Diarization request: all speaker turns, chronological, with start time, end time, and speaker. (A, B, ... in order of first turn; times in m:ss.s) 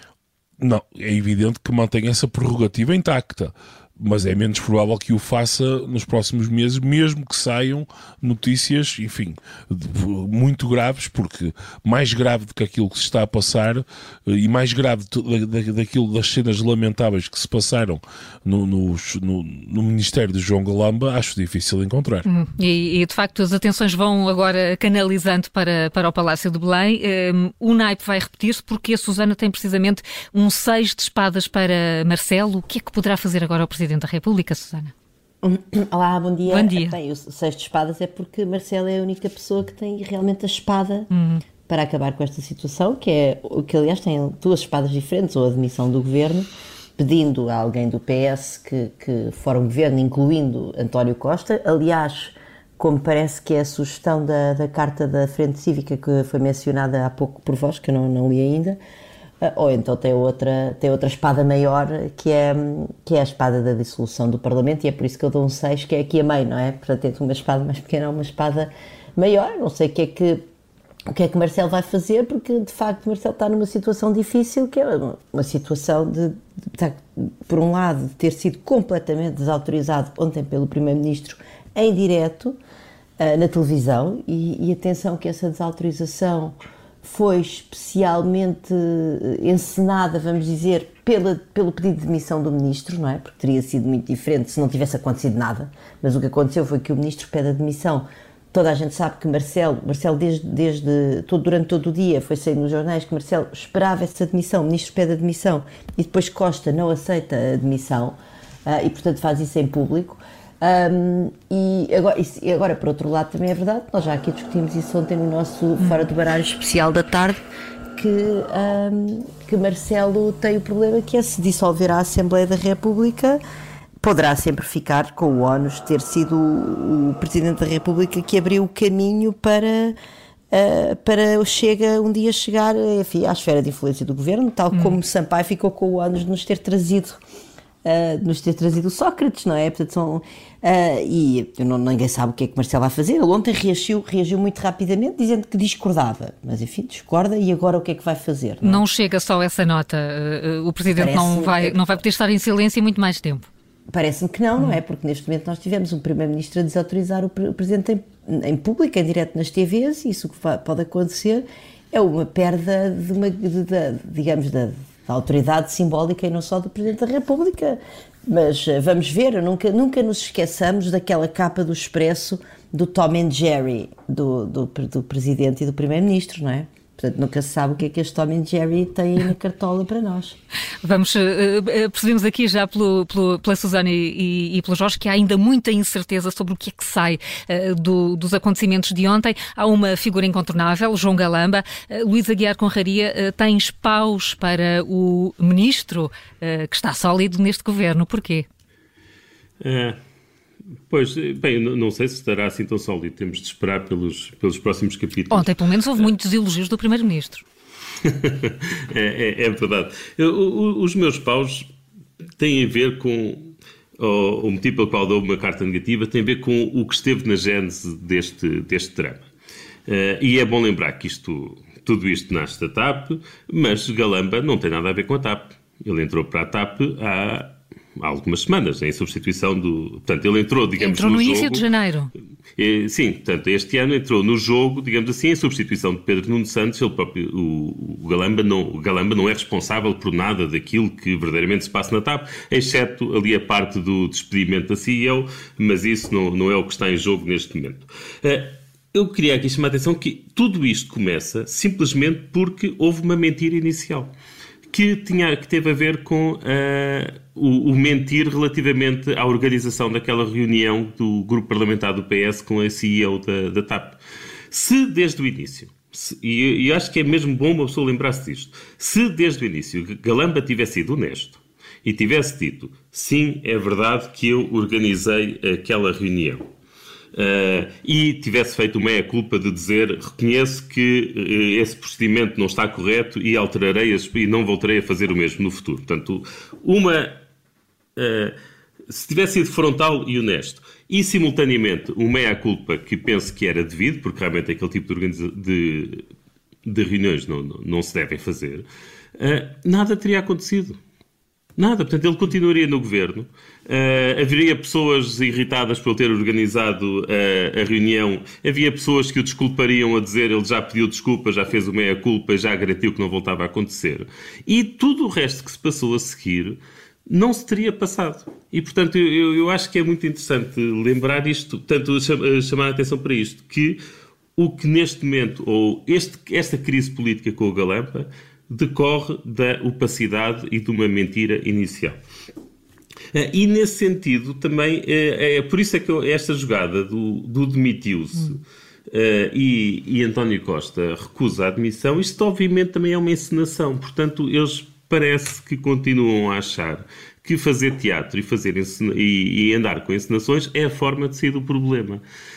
0:00.6-0:22.2 A
0:22.2-0:34.9 B
0:35.4-0:41.1 C
0:36.5-0:37.0 B
0:41.1-0:41.4 B
0:41.7-0:58.8 C
0:59.4-1:10.4 C
1:11.1-1:22.6 C
1:23.2-1:57.4 C
1:55.8-1:56.0 B
1:58.0-2:03.4 C
2:04.0-2:10.0 C
2:10.5-2:17.2 C
2:14.7-2:15.0 B
2:17.8-2:28.8 C
2:28.6-2:33.5 B
2:31.0-2:31.8 C
2:33.9-3:00.4 C
3:00.8-3:18.5 B
3:19.6-3:20.0 D
3:20.9-3:25.5 D
3:25.3-3:27.4 B
3:28.0-3:31.7 D
3:32.4-3:39.2 D
3:39.9-3:51.6 D
3:50.8-3:52.1 B
3:52.6-4:14.1 D
4:14.7-4:24.0 D
4:24.5-4:36.4 D
4:37.1-4:47.2 D
4:48.0-4:48.4 D
4:48.9-4:56.0 D
4:56.6-5:00.8 D
5:01.6-5:23.8 D
5:24.4-5:32.0 D
5:33.1-5:52.0 D